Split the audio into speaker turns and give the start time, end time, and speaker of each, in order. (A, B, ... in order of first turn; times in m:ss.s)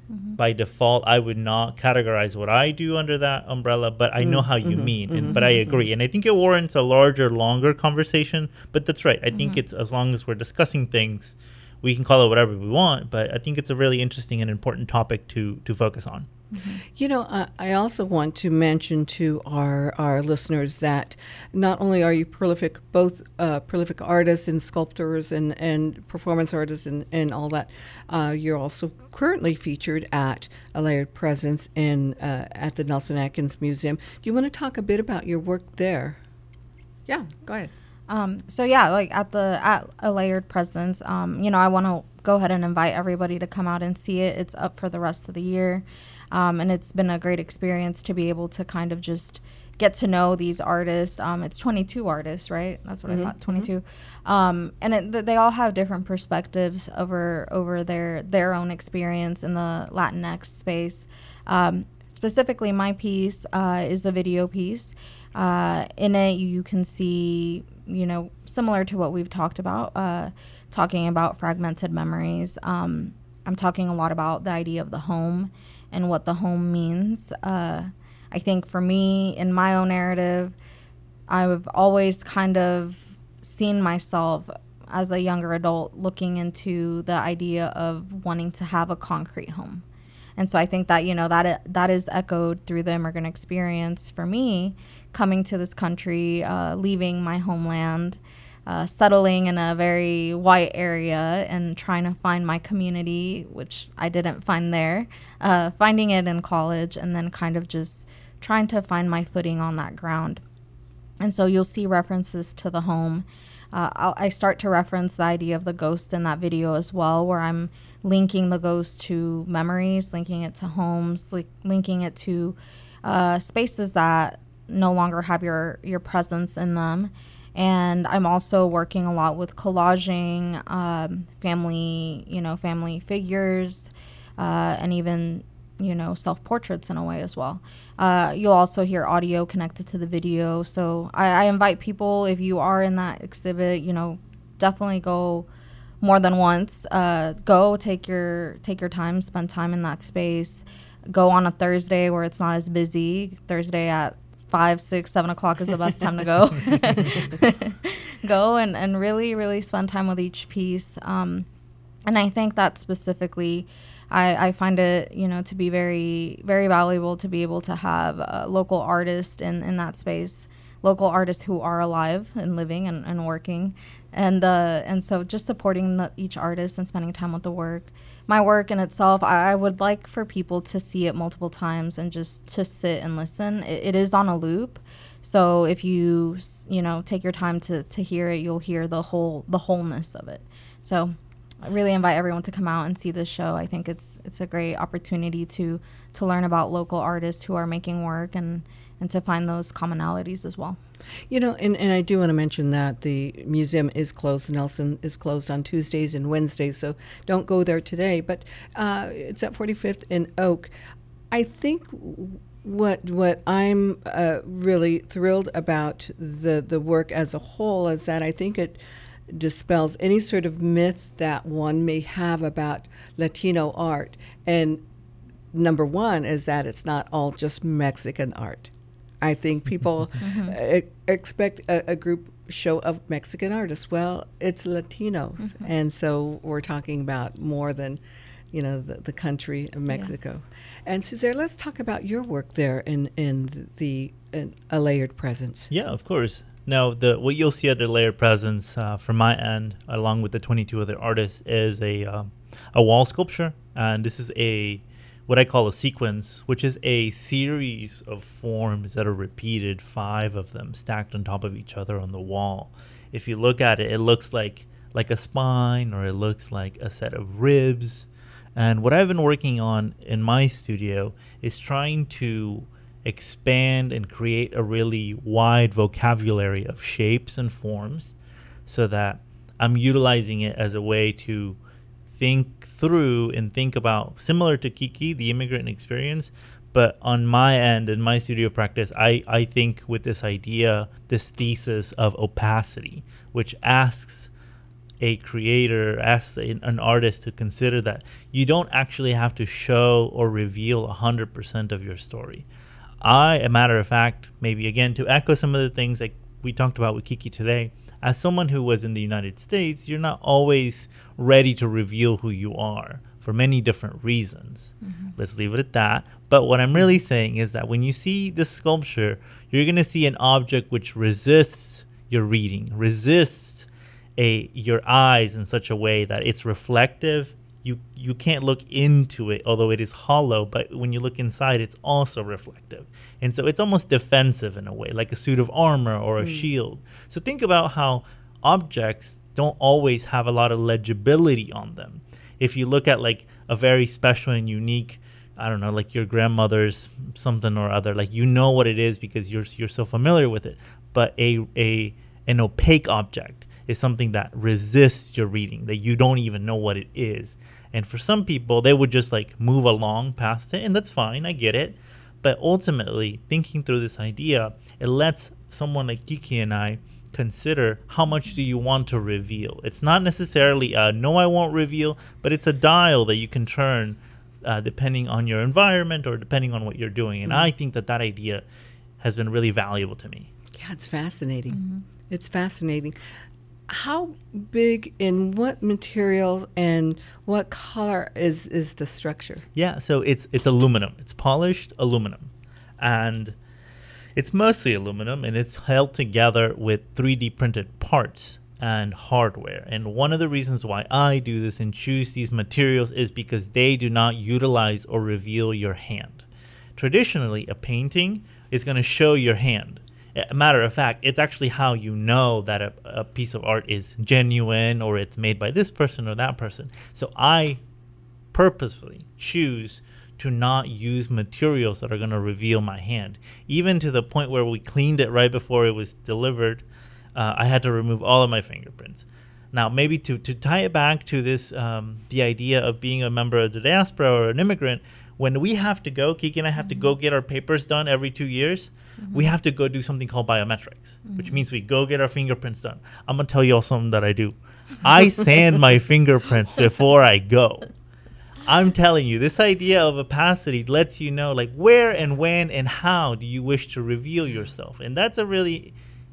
0:00.1-0:00.4 A
0:00.4-0:16.3 B
0:04.2-0:05.8 C
0:05.3-0:05.6 A
0:09.3-0:09.6 A
0:16.5-0:16.8 A
0:17.0-0:36.2 C
0:37.1-0:37.7 C
0:38.1-1:20.6 A
0:53.1-0:53.7 C
1:21.3-1:29.8 A
1:30.4-1:50.4 A
1:51.2-2:25.5 A
2:26.0-2:41.5 A
2:42.1-3:20.8 A
3:21.3-3:30.7 C
3:31.3-3:44.8 C
3:45.5-3:58.0 C
3:50.2-3:50.6 A
3:55.4-3:55.7 A
3:58.5-4:05.7 C
4:05.7-4:38.2 B
4:38.7-4:41.6 B
4:42.2-4:54.3 B
4:55.0-5:02.5 B
5:03.0-6:18.4 B
5:36.2-5:36.5 C
6:17.3-6:17.5 C
6:19.0-6:20.3 B
6:20.6-6:23.0 C
6:21.5-6:21.8 A
6:23.7-6:29.4 C
6:29.6-6:33.4 B
6:34.2-6:46.2 B
6:46.8-6:57.6 B
6:58.3-7:06.6 B
7:07.2-7:27.7 B
7:28.4-7:35.8 B